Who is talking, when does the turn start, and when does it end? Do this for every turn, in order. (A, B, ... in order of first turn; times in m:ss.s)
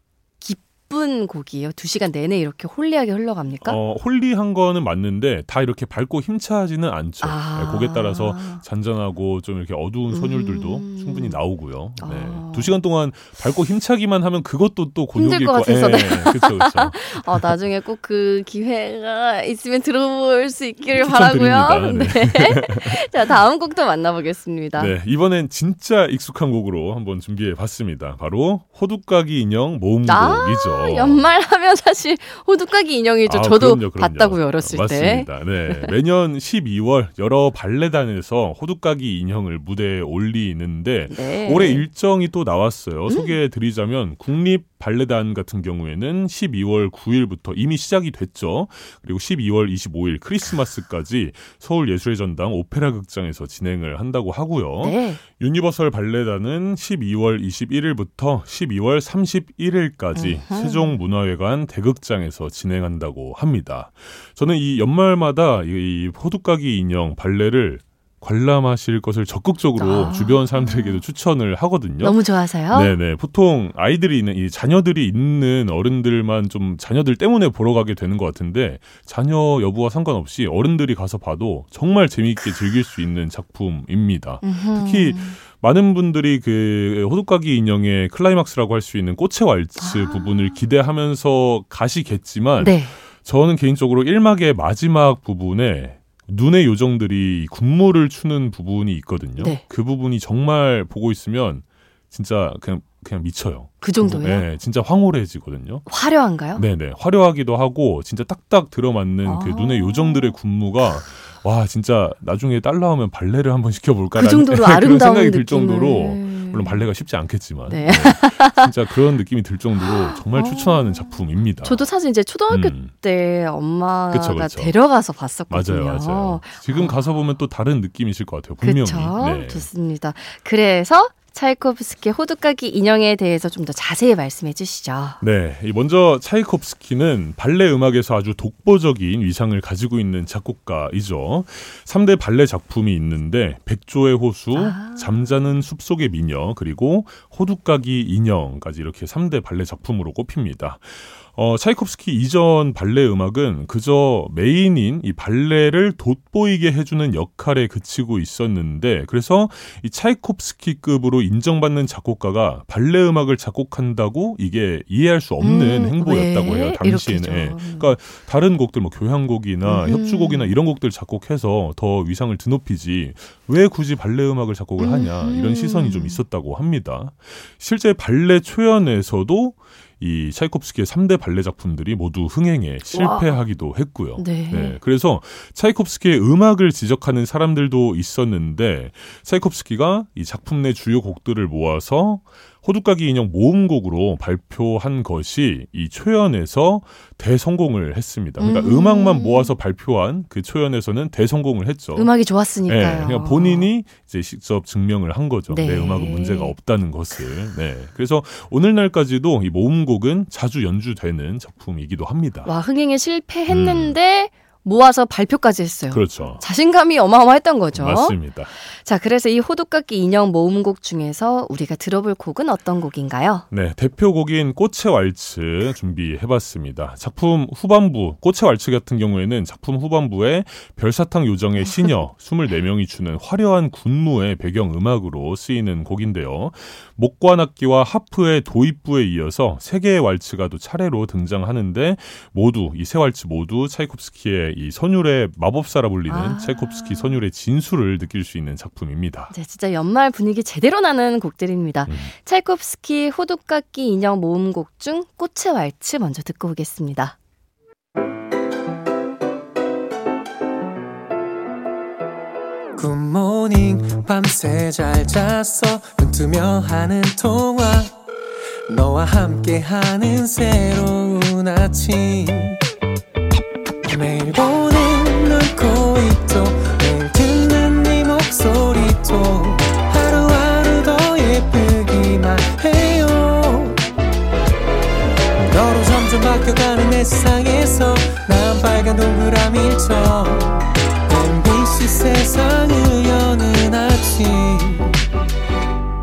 0:00.4-0:03.8 A
0:03.6-0:17.5 B
0:07.2-0:08.6 A
0:10.1-0:11.4 A
0:12.0-0:12.8 A
0:15.2-0:24.9 A
0:20.9-0:23.1 B
0:24.8-0:31.3 B
0:30.1-0:35.9 A
0:33.2-1:12.2 B
0:41.1-0:41.9 A
0:43.1-0:43.3 A
0:54.8-0:55.2 A
1:00.2-1:00.9 A
1:09.8-1:11.0 A
1:12.0-1:13.0 A
1:12.7-1:45.8 B
1:24.4-1:25.4 A
1:29.8-1:30.6 A
1:32.6-1:33.0 A
1:43.8-1:44.5 A
1:45.9-1:46.6 A
1:46.6-2:01.8 B
1:49.2-1:50.4 A
1:54.2-1:56.8 A
1:57.7-1:58.7 A
1:59.8-2:07.0 A
2:02.5-2:02.9 B
2:04.1-2:04.8 B
2:05.5-2:09.7 B
2:08.6-2:15.2 A
2:15.2-3:22.1 B
2:24.5-2:25.3 A
2:45.4-2:48.0 A
2:49.6-2:50.6 A
2:54.8-2:56.2 A
3:02.9-3:03.4 A
3:04.2-3:04.8 A
3:18.4-3:19.5 A
3:22.0-3:23.7 A
3:22.7-3:32.5 B
3:25.5-3:26.6 A
3:32.4-3:43.4 A
3:33.5-3:34.0 B
3:35.9-3:36.4 B
3:37.7-3:38.5 B
3:43.5-4:09.3 B
4:06.1-4:07.2 A
4:09.3-4:17.2 A
4:11.9-4:12.1 B
4:22.8-4:27.9 C
4:28.7-4:32.6 C
4:33.9-4:43.8 C
4:45.4-4:55.0 C